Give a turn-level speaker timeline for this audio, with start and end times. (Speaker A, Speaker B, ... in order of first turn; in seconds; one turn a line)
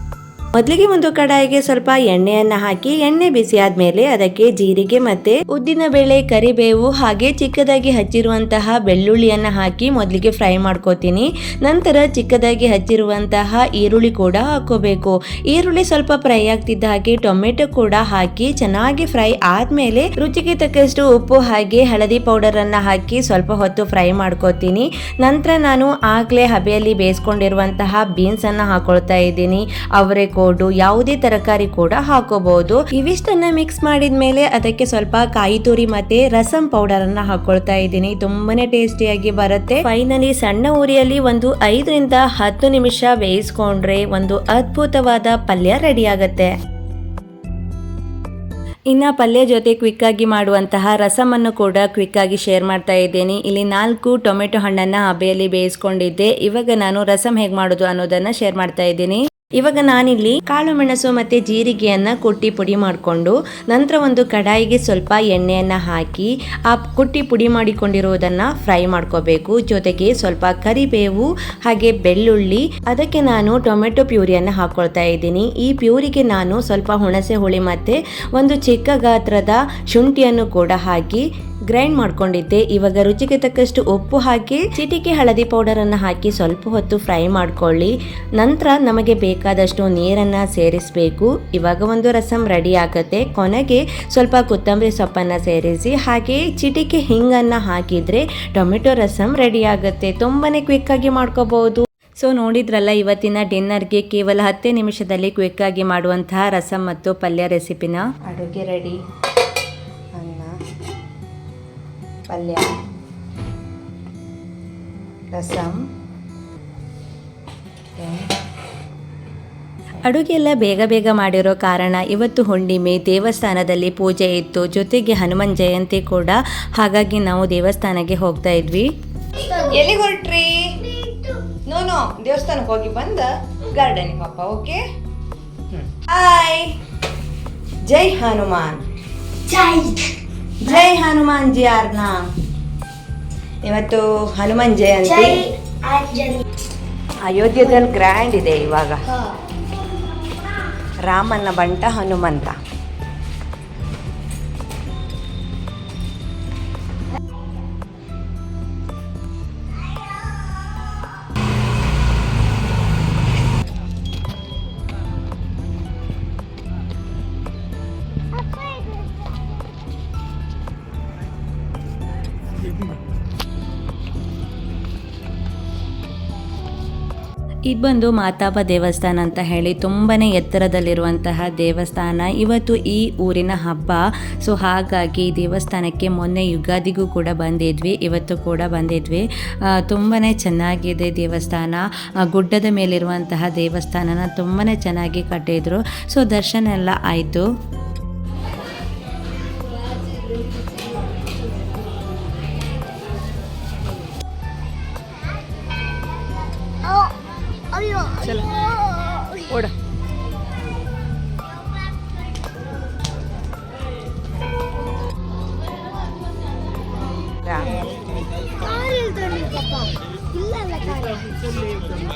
Speaker A: 0.5-46.5
Speaker A: 48.9-109.0
Speaker A: 110.1-110.6
Speaker A: 112.3-112.8
Speaker A: 115.3-115.8
Speaker A: 118.0-118.3
Speaker A: 120.0-128.9
Speaker B: 129.3-129.7
Speaker A: 129.5-130.8
Speaker B: 130.8-131.6
Speaker A: 131.6-134.8
Speaker A: 135.7-136.7
Speaker A: 137.8-138.8
Speaker B: 139.4-140.2
Speaker A: 140.6-142.2
Speaker A: 143.6-145.5
Speaker B: 145.2-146.4
Speaker A: 147.2-149.1
Speaker A: 151.0-152.6
Speaker B: 168.3-169.6
Speaker A: 177.7-197.5
Speaker B: 205.9-206.2
Speaker B: 206.8-207.2
Speaker B: 207.7-209.7
Speaker A: 217.4-217.8
Speaker B: 218.6-221.3